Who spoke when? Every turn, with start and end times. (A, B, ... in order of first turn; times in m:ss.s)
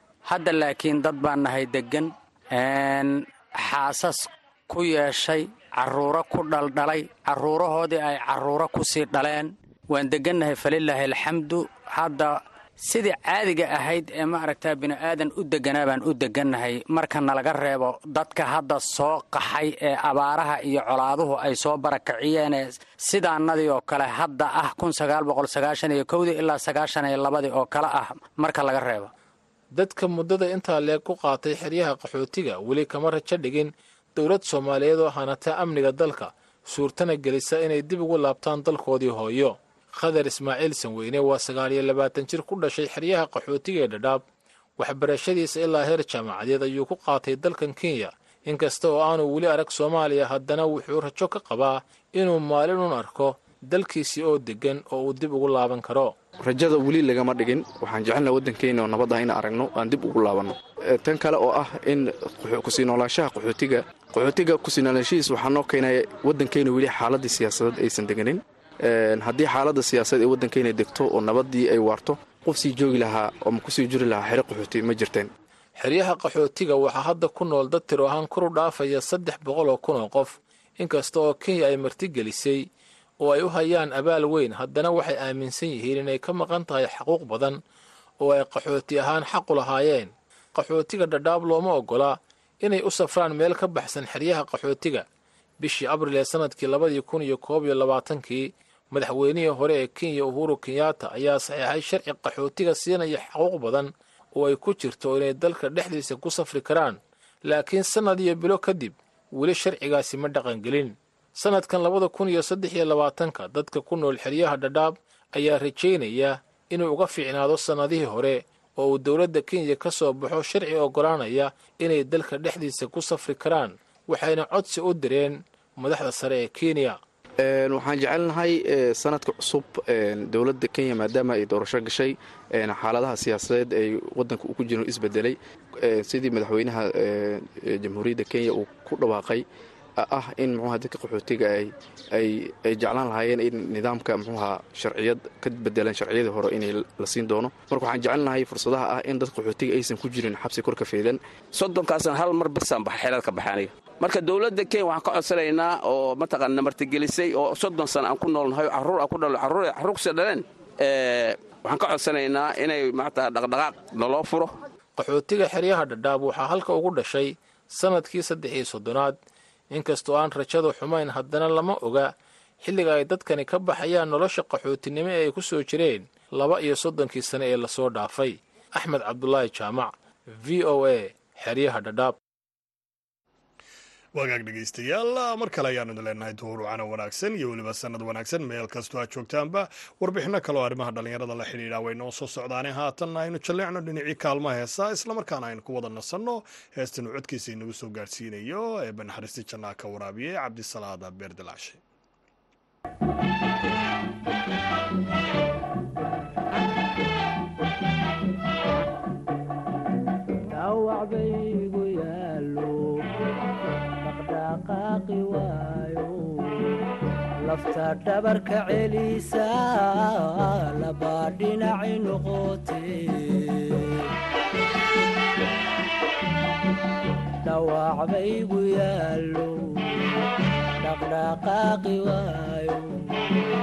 0:00.3-0:29.1 A
0:29.7-0:44.2 B
0:44.8-0:56.1 B
0:56.4-1:15.3 C
1:15.8-1:22.6 B
1:23.2-1:27.6 B
1:28.2-1:35.0 B
1:35.6-2:07.0 B
2:07.4-2:19.4 C
2:20.0-2:31.2 C
2:31.5-2:44.5 D
2:45.0-2:49.2 B
2:49.7-3:02.2 B
3:04.1-3:21.8 E
3:30.5-3:33.0 F
3:34.0-3:36.7 F
3:37.4-3:44.0 F
3:47.4-3:50.0 F
3:50.8-3:53.2 F